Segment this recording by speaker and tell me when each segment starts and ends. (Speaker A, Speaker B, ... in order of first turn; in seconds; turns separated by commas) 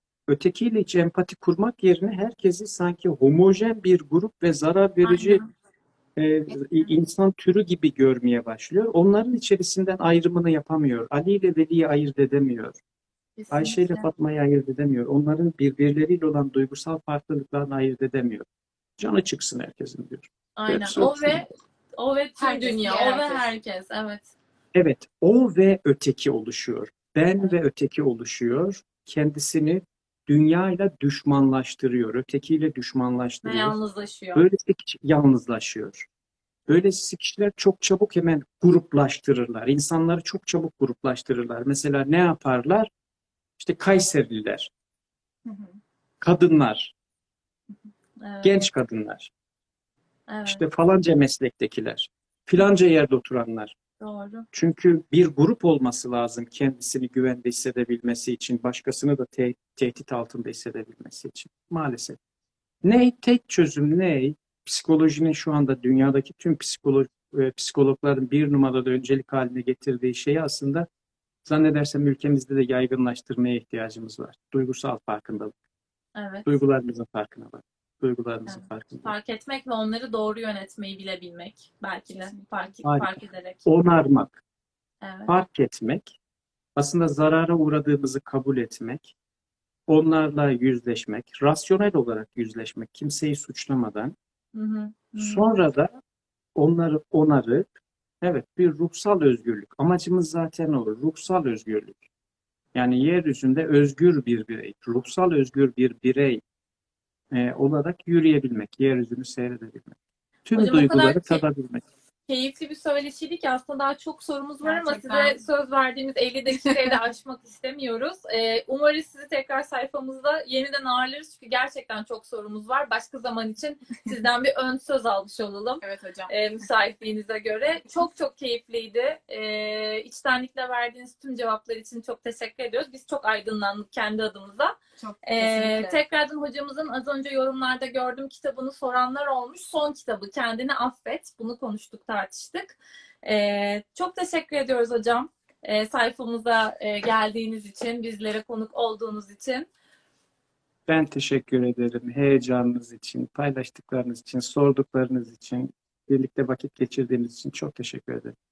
Speaker A: 0.3-5.4, Speaker B: 5.0-5.5, Speaker A: 6.2-12.8, Speaker C: 6.5-6.9, Speaker B: 13.4-14.1, Speaker A: 13.5-18.4, Speaker A: 19.0-21.4, Speaker B: 20.6-24.3, Speaker C: 22.4-23.5, Speaker A: 24.7-33.8, Speaker B: 33.4-34.5, Speaker A: 34.3-36.1, Speaker A: 36.7-42.9, Speaker A: 43.6-44.7, Speaker C: 45.5-45.8, Speaker A: 46.2-46.9, Speaker B: 48.2-48.6, Speaker A: 48.4-49.3, Speaker B: 50.3-50.6, Speaker A: 50.5-53.7, Speaker B: 54.0-54.5, Speaker A: 54.5-62.2, Speaker A: 62.8-70.9, Speaker A: 71.5-75.5, Speaker B: 76.2-76.5, Speaker A: 76.5-79.1, Speaker B: 78.5-83.6, Speaker C: 82.1-82.7, Speaker A: 82.8-84.4, Speaker B: 85.0-85.3, Speaker A: 85.3-86.2, Speaker A: 86.8-89.1, Speaker A: 89.9-94.2, Speaker B: 94.5-95.5, Speaker A: 95.2-95.9, Speaker A: 96.5-97.7, Speaker A: 98.2-102.0, Speaker A: 102.7-106.4, Speaker A: 107.3-110.0, Speaker A: 110.5-111.8, Speaker B: 110.5-111.4, Speaker B: 112.3-149.7, Speaker C: 114.6-115.4, Speaker C: 125.8-126.3, Speaker C: 135.0-136.0, Speaker A: 150.9-158.3